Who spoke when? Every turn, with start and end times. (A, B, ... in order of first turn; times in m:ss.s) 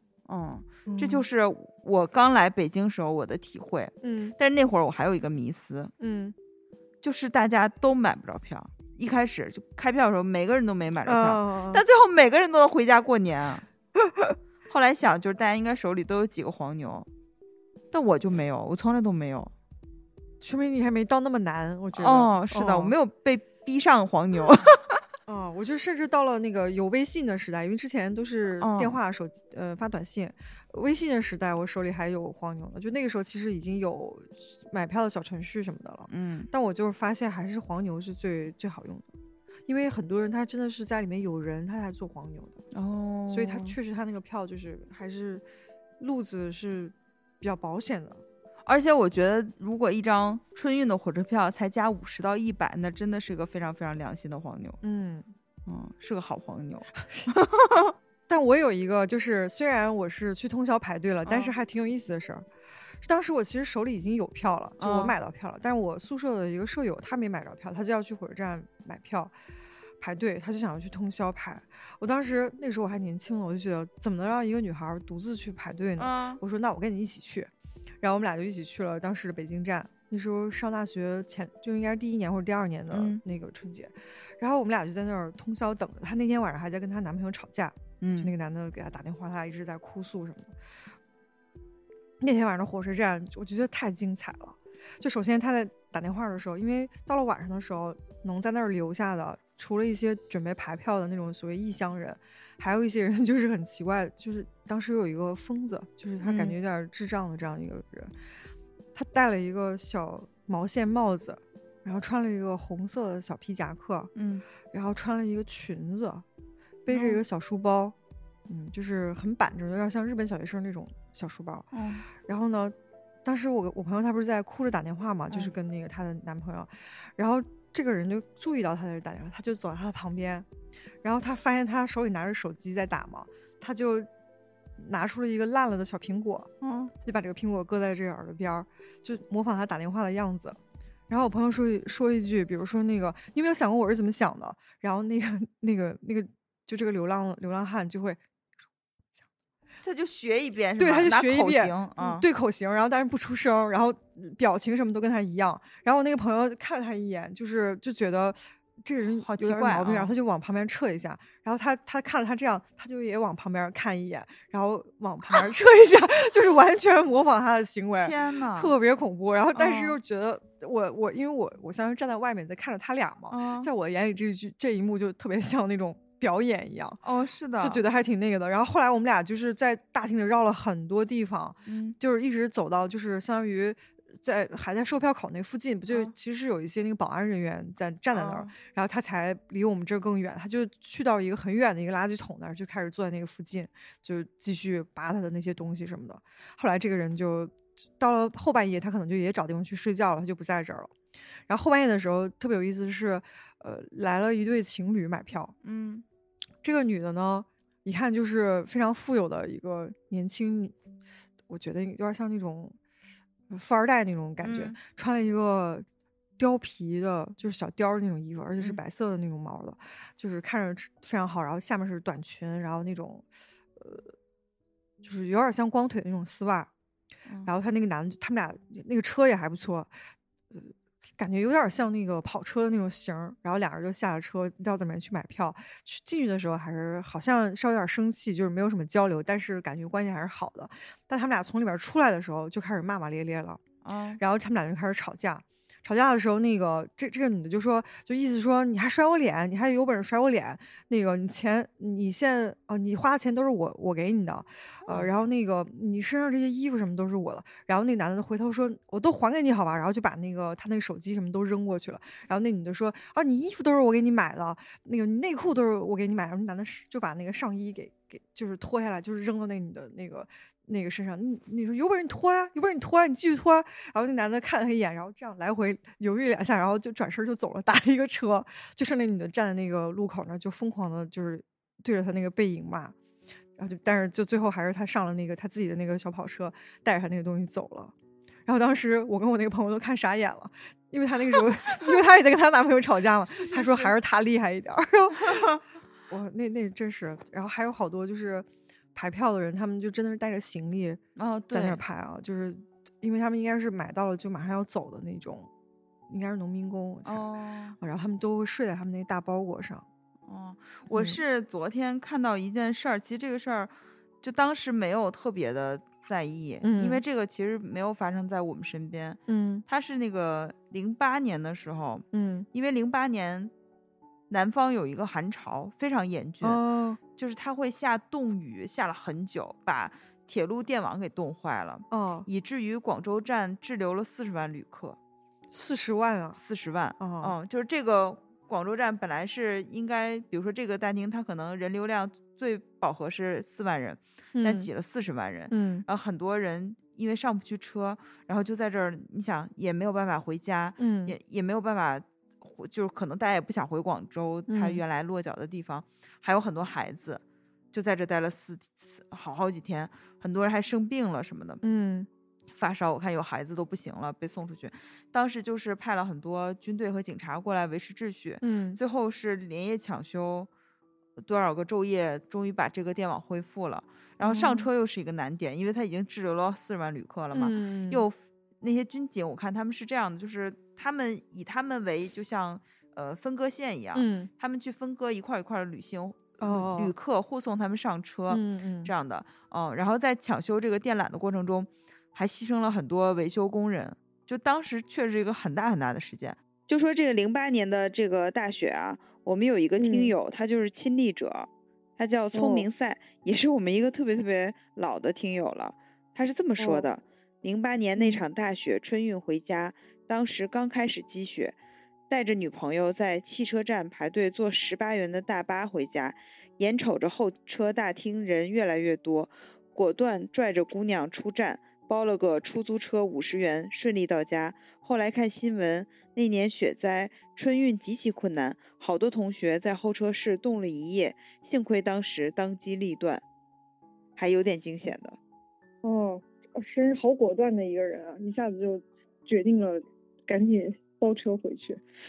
0:00.2-0:05.9 A
0:00.8-0:01.2 B
0:04.0-0:04.3 B
0:06.0-0:06.3 B
0:07.0-0:13.6 A
0:11.0-0:11.8 B
0:14.7-0:17.1 A
0:17.9-0:19.5 A
0:20.4-0:22.9 B
0:22.0-0:25.0 A
0:25.3-0:39.1 B
0:28.6-0:29.0 A
0:36.1-0:36.5 A
0:39.7-0:42.6 B
0:42.7-0:43.8 A
0:43.3-0:45.4 B
0:46.0-0:48.2 B
0:48.6-0:54.8 A
0:54.8-0:55.3 B
0:55.6-0:57.9 A
0:58.3-1:02.4 B
1:01.2-1:01.5 A
1:03.0-1:09.3 B
1:04.8-1:05.2 A
1:10.0-1:30.5 B
1:16.0-1:16.4 A
1:22.9-1:23.2 A
1:28.0-1:28.3 A
1:32.2-1:48.1 B
1:46.2-1:46.6 A
1:48.9-1:54.1 B
1:54.1-1:54.4 A
1:54.7-1:56.2 B
1:56.8-1:57.9 B
1:56.9-1:57.2 A
1:58.5-2:10.5 B
2:01.7-2:02.0 A
2:11.0-2:14.1 B
2:14.8-2:16.5 B
2:16.6-2:16.9 A
2:17.0-2:20.6 B
2:21.1-2:28.2 B
2:29.8-2:32.2 A
2:30.8-2:57.0 B
2:39.2-2:40.1 A
2:48.0-2:48.7 A
2:49.6-2:50.0 A
2:53.3-2:53.7 A
2:57.0-2:57.8 A
2:57.6-3:20.9 B
3:01.6-3:02.0 A
3:08.1-3:08.5 A
3:21.5-3:25.5 B
3:25.6-3:26.0 A
3:26.6-3:30.7 B
3:31.5-3:32.8 B
3:33.5-3:35.8 B
3:34.4-3:34.8 A
3:36.4-3:43.2 B
3:43.8-3:44.1 B
3:45.0-3:46.7 B
3:47.4-3:49.9 B
3:50.5-4:03.6 B
4:03.8-4:04.2 A
4:04.2-4:42.9 B
4:43.6-4:47.9 B
4:48.4-5:01.0 B
4:53.3-4:53.9 A
5:01.2-5:01.8 A
5:01.5-5:05.5 B
5:06.1-5:07.3 B
5:07.0-5:07.8 A
5:07.8-5:09.8 B
5:10.2-5:23.5 A
5:10.9-5:11.2 B
5:16.6-5:17.0 B
5:19.3-5:19.6 B
5:22.1-5:22.5 B
5:24.3-5:26.6 A
5:26.4-5:27.0 B
5:27.1-5:35.0 A
5:31.9-5:32.3 B
5:35.5-5:36.4 B
5:36.4-6:01.6 A
5:37.0-5:37.3 B
5:44.4-5:44.7 B
5:45.5-5:45.8 B
5:50.8-5:51.2 B
5:54.5-5:54.8 B
6:01.6-6:02.1 B
6:02.5-6:10.5 A
6:08.4-6:08.8 B
6:11.2-6:36.4 A
6:14.2-6:14.7 B
6:17.3-6:18.0 B
6:23.9-6:24.3 B
6:26.4-6:26.9 B
6:28.3-6:28.9 B
6:36.7-6:51.6 C
6:39.8-6:40.1 D
6:42.3-6:42.7 D
6:46.6-6:46.9 D
6:52.1-7:13.2 C
7:14.2-7:15.2 C
7:15.8-7:21.8 D